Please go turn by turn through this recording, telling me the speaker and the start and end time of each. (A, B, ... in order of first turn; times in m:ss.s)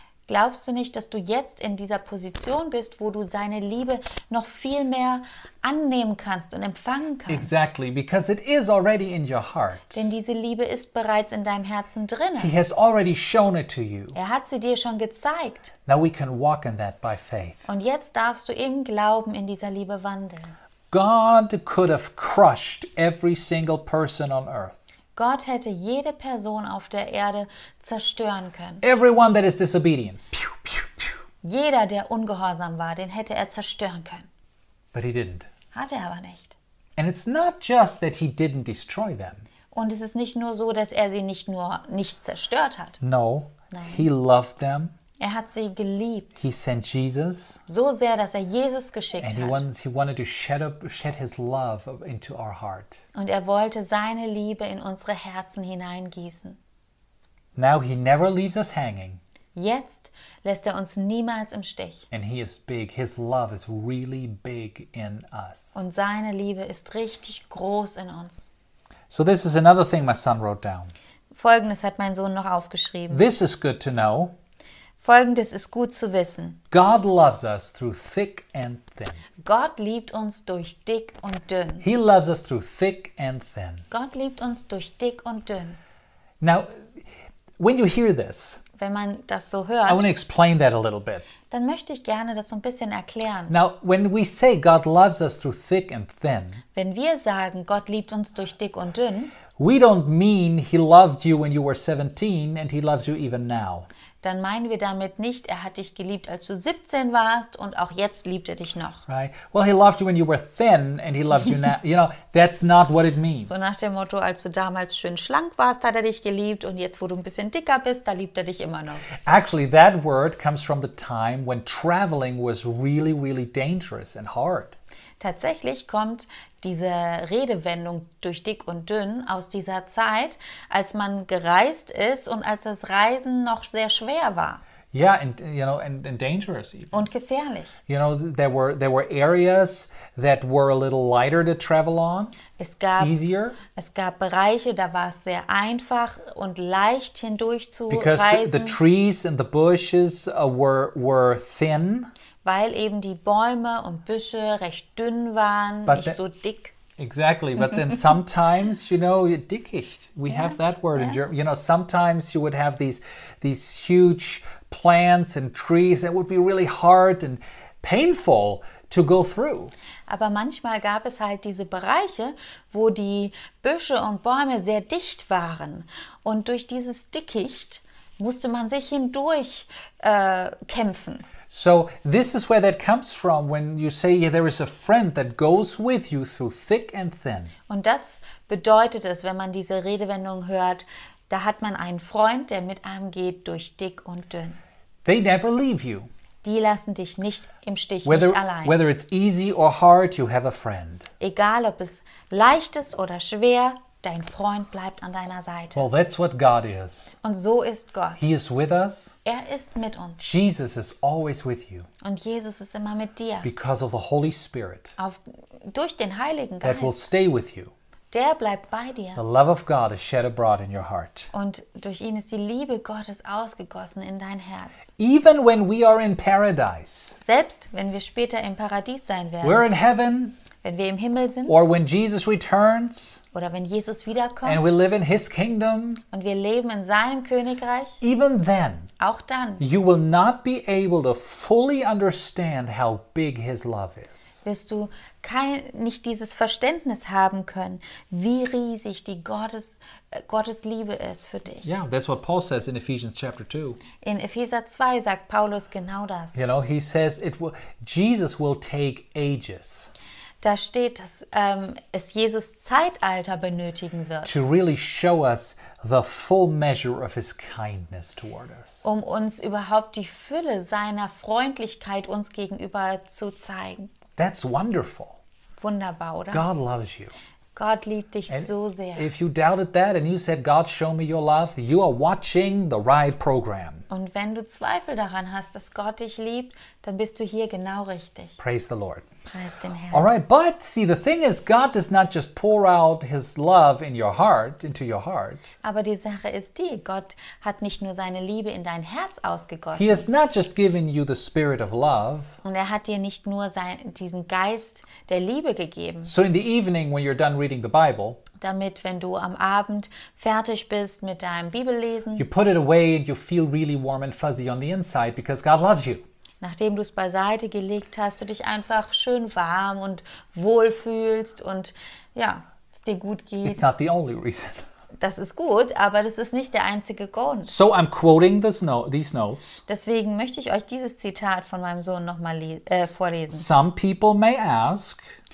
0:00.3-0:07.5 A
0:07.3-0:10.1 B
0:09.9-0:12.6 A
0:12.4-0:14.2 B
0:14.1-0:15.7 A
0:15.9-0:17.7 B
0:17.7-0:20.6 A
0:20.9-0:24.8 B
0:25.2-0:28.8 A
0:28.8-0:30.9 B
0:31.4-0:34.3 A
0:34.9-0:35.5 B
0:35.7-0:36.6 A
0:37.0-0:39.5 B
0:39.7-0:43.0 A
0:43.0-0:44.9 B
0:43.7-0:44.0 A
0:45.2-0:46.4 A
0:46.4-0:47.6 B
0:47.7-0:49.6 A
0:49.2-0:53.0 B
0:53.2-0:56.6 A
0:57.6-0:59.2 B
0:59.6-1:02.1 A
1:02.1-1:05.8 B
1:05.8-1:08.5 A
1:09.1-1:10.9 B
1:11.3-1:13.2 A
1:13.1-1:14.3 B
1:15.0-1:16.6 A
1:16.7-1:19.2 B
1:19.4-1:21.9 A
1:21.8-1:23.9 B
1:23.9-1:25.8 A
1:26.4-1:26.9 B
1:27.6-1:28.6 B
1:28.8-1:30.1 A
1:29.9-1:31.2 B
1:31.5-1:33.5 A
1:33.5-1:36.6 B
1:36.8-1:39.3 A
1:39.6-1:43.9 B
1:44.2-1:49.0 A
1:49.1-1:53.7 B
1:53.5-1:59.2 A
1:59.2-2:04.8 B
2:05.2-2:14.6 A
2:14.9-2:17.1 B
2:16.9-2:17.8 A
2:17.9-2:22.4 B
2:22.6-2:28.8 A
2:23.0-2:23.6 B
2:27.9-2:32.1 B
2:32.4-2:36.8 A
2:35.9-2:36.2 B
2:37.0-2:49.7 B
2:40.3-2:41.2 A
2:50.1-3:01.2 A
3:01.5-3:07.5 B
3:07.7-3:14.6 A
3:15.0-3:16.1 B
3:16.4-3:18.8 A
3:18.0-3:21.1 B
3:21.2-3:25.9 A
3:25.8-3:27.2 B
3:27.2-3:28.2 A
3:28.2-3:29.2 B
3:29.2-3:30.3 A
3:30.2-3:31.9 B
3:32.0-3:33.5 A
3:33.4-3:35.0 B
3:35.0-3:37.0 A
3:36.6-3:37.7 B
3:38.1-3:39.2 A
3:39.2-3:41.3 B
3:41.3-3:44.8 A
3:45.0-3:47.2 B
3:47.2-3:49.6 A
3:49.4-3:50.4 B
3:50.6-3:51.6 A
3:51.5-3:53.2 B
3:53.3-3:54.6 A
3:54.4-3:56.0 B
3:56.1-3:58.0 A
3:58.0-3:58.9 B
3:59.0-3:59.6 A
3:59.6-4:04.4 B
4:04.4-4:11.7 A
4:11.6-4:13.8 B
4:14.0-4:16.4 A
4:16.4-4:19.9 B
4:20.4-4:24.3 A
4:24.2-4:28.8 B
4:28.8-4:33.9 A
4:34.2-4:35.2 B
4:35.6-4:36.5 A
4:36.3-4:37.1 B
4:37.6-4:39.1 A
4:38.3-4:43.9 B
4:43.9-4:48.4 A
4:48.4-4:49.1 B
4:49.3-4:50.1 A
4:49.9-4:55.5 B
4:55.6-5:00.1 A
4:59.8-5:02.4 B
5:02.4-5:06.1 A
5:06.0-5:08.2 B
5:08.4-5:12.2 A
5:12.2-5:16.0 B
5:16.4-5:23.7 A
5:23.4-5:24.7 B
5:25.0-5:27.5 A
5:27.5-5:29.6 B
5:29.7-5:33.5 A
5:32.7-5:35.1 B